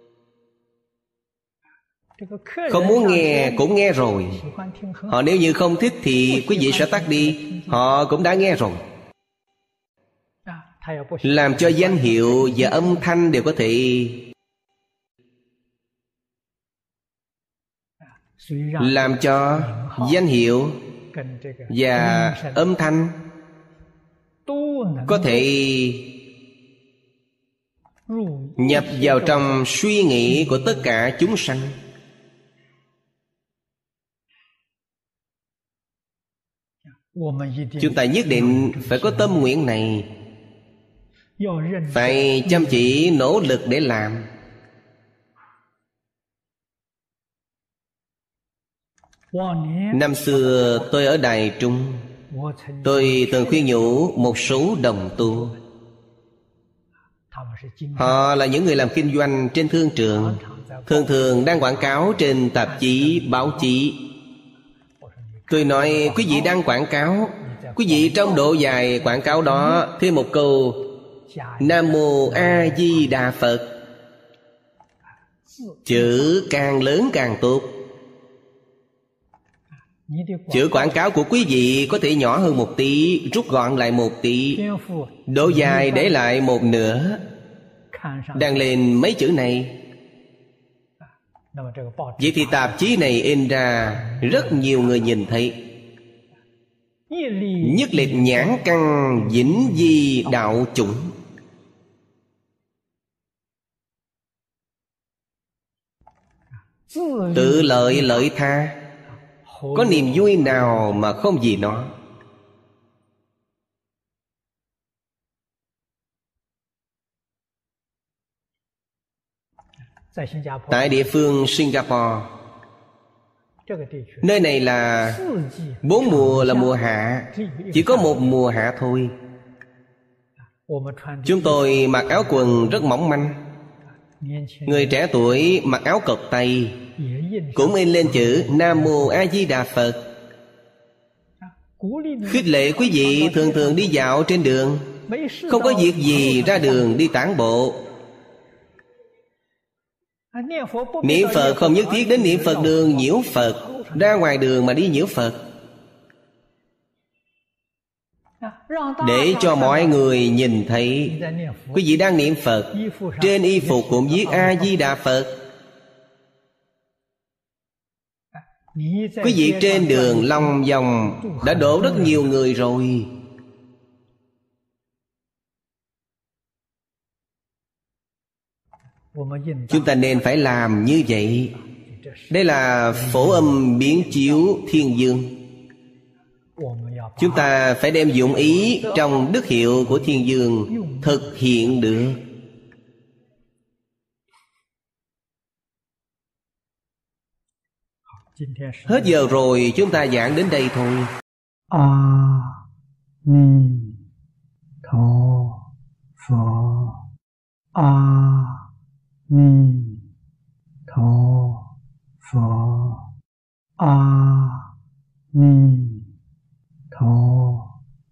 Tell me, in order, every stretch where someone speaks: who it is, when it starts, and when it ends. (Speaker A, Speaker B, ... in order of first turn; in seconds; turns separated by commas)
Speaker A: 2.2-3.6, Speaker B: 2.7-4.4, Speaker A: 4.3-5.2, Speaker B: 5.1-8.8, Speaker A: 6.2-7.9, Speaker A: 10.5-13.1, Speaker B: 11.2-14.2, Speaker A: 18.2-20.2, Speaker B: 18.8-20.8, Speaker A: 21.1-22.7, Speaker B: 21.7-23.2, Speaker A: 24.5-25.5, Speaker B: 25.1-26.0, Speaker A: 28.1-31.0, Speaker B: 28.6-31.8, Speaker A: 37.0-39.5, Speaker B: 37.8-40.1, Speaker A: 41.4-43.0, Speaker B: 41.9-44.3, Speaker A: 49.3-50.9, Speaker B: 49.9-52.1, Speaker A: 52.3-54.1, Speaker B: 52.9-55.5, Speaker A: 55.2-55.6, Speaker A: 57.3-58.3, Speaker B: 58.0-60.4, Speaker A: 60.1-61.9, Speaker B: 60.9-64.0, Speaker A: 62.6-63.7, Speaker A: 65.0-66.6, Speaker B: 65.5-70.8, Speaker A: 67.4-69.9, Speaker A: 71.3-73.2, Speaker B: 71.6-73.7, Speaker A: 75.4-76.4, Speaker B: 75.9-77.7, Speaker A: 80.1-81.8, Speaker B: 80.5-84.6, Speaker A: 84.5-86.2, Speaker B: 85.3-87.2, Speaker A: 87.9-88.7, Speaker B: 88.3-89.8, Speaker A: 91.5-92.9, Speaker B: 92.2-95.6, Speaker A: 93.8-94.8, Speaker A: 97.1-100.6, Speaker B: 97.6-101.1, Speaker A: 106.9-108.3, Speaker B: 107.3-108.8, Speaker A: 109.2-111.2, Speaker B: 109.8-111.9, Speaker A: 120.1-121.1, Speaker B: 120.7-122.3, Speaker A: 123.7-124.3, Speaker B: 124.2-125.2, Speaker A: 125.0-126.8, Speaker B: 125.8-129.2, Speaker A: 127.3-128.3, Speaker A: 130.7-132.9, Speaker B: 131.3-133.4, Speaker A: 134.2-135.0, Speaker B: 134.7-136.8, Speaker A: 137.0-139.2, Speaker B: 137.6-140.0, Speaker A: 141.4-144.0, Speaker B: 142.3-144.9, Speaker A: 145.1-147.0, Speaker B: 145.5-147.8, Speaker A: 150.3-154.2, Speaker B: 151.0-155.4, Speaker A: 158.4-160.0, Speaker B: 159.0-161.2, Speaker A: 161.0-162.0, Speaker B: 161.8-165.3, Speaker A: 162.7-164.8, Speaker A: 168.7-172.3, Speaker B: 169.2-173.1, Speaker A: 179.1-179.9, Speaker B: 179.7-181.5, Speaker A: 181.6-182.4, Speaker B: 182.3-185.3, Speaker A: 182.9-184.6, Speaker A: 186.6-187.6, Speaker B: 187.2-192.2, Speaker A: 188.1-192.2, Speaker A: 198.2-199.4, Speaker B: 198.9-201.1, Speaker A: 201.7-202.6, Speaker A: 203.2-204.0, Speaker A: 204.8-205.6, Speaker A: 206.2-207.0, Speaker A: 207.7-208.7, Speaker A: 209.3-210.1, Speaker A: 210.9-211.7, Speaker A: 212.2-213.1, Speaker A: 213.8-214.7, Speaker A: 215.3-216.1, Speaker A: 216.9-217.7